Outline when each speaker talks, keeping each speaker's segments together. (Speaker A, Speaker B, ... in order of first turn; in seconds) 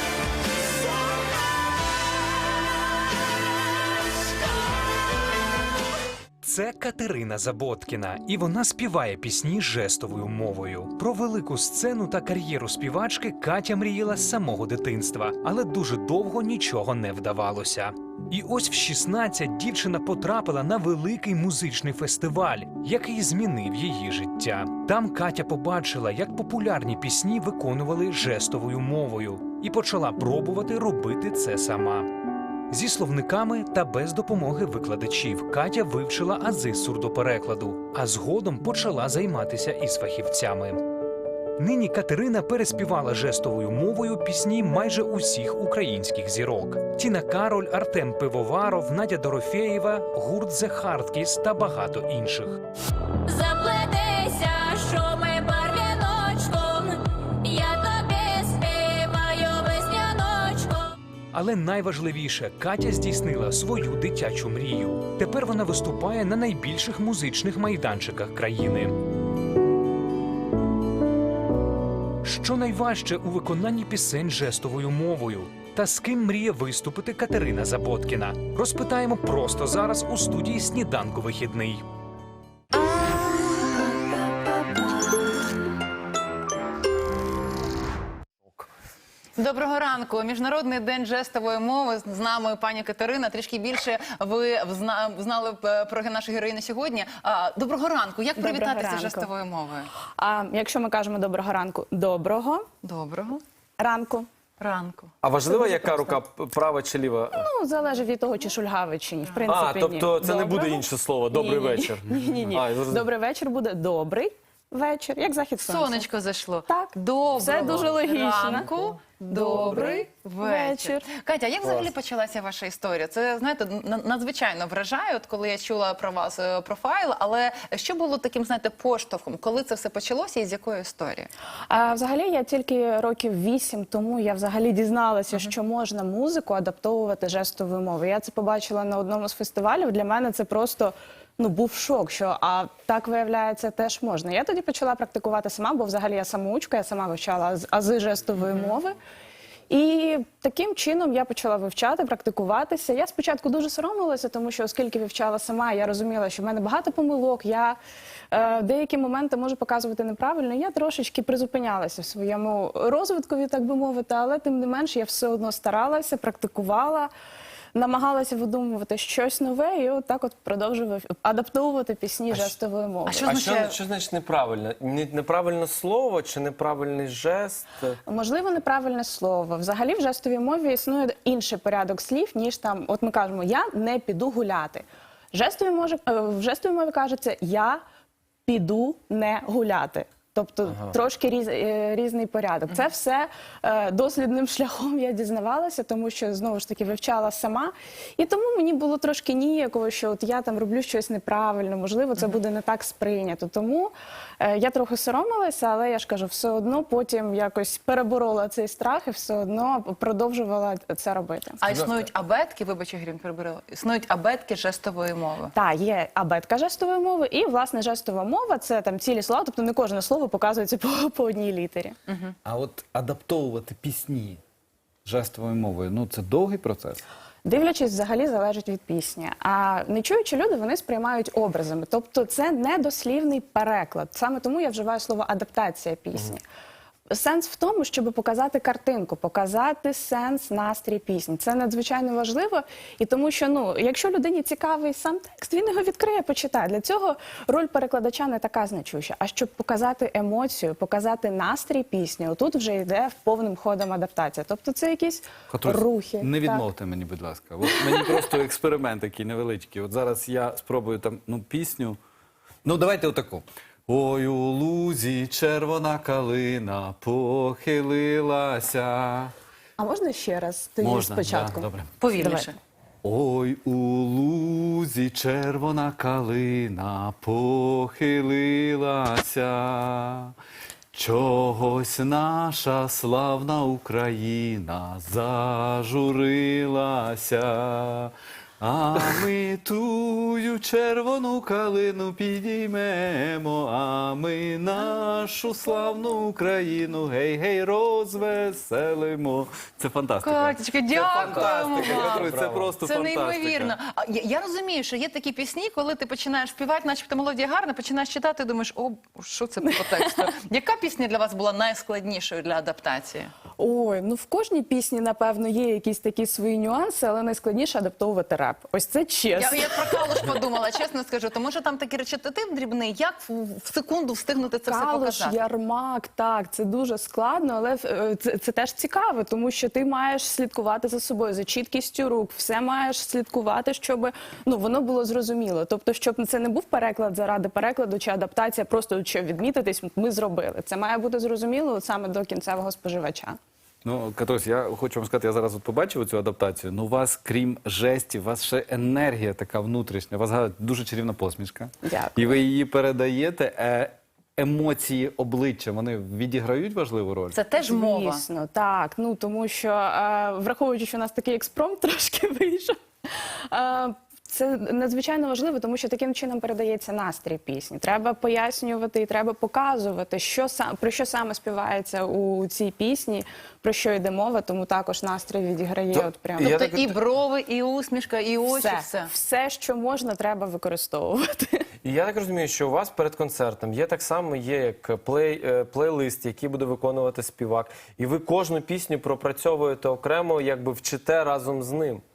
Speaker A: 6.4-32.1, 32.7-40.8, 41.6-52.6, 61.3-69.0, 72.2-81.8
Speaker B: 53.3-60.9
Speaker C: 89.4-99.9, 102.8-103.4, 104.6-105.1, 115.6-131.3, 173.1-173.8, 211.6-215.5, 222.1-222.3, 272.0-272.6, 300.2-313.3, 319.4-325.4, 357.3-358.2, 376.4-379.1
Speaker D: 98.3-99.3, 100.2-102.7, 103.8-104.3, 105.5-106.2, 107.3-116.1, 116.7-121.1, 131.7-148.9, 149.7-157.8, 158.3-167.1, 167.7-173.3, 178.1-187.8, 188.5-211.6, 215.5-221.9, 227.4-236.4, 237.1-256.6, 269.8-272.5, 309.9-310.3, 313.6-320.3, 324.7-343.4, 351.8-352.4, 357.6-376.5, 378.5-381.6
Speaker E: 105.2-107.5, 109.5-113.0, 121.6-121.9, 173.2-178.0, 190.7-190.9, 211.7-212.0, 301.0-302.7, 375.9-376.9, 381.8-392.0
Speaker F: 222.4-224.4, 225.0-227.0, 255.5-262.0, 262.6-269.3, 270.8-271.9, 273.0-280.3, 280.9-303.8, 343.8-357.4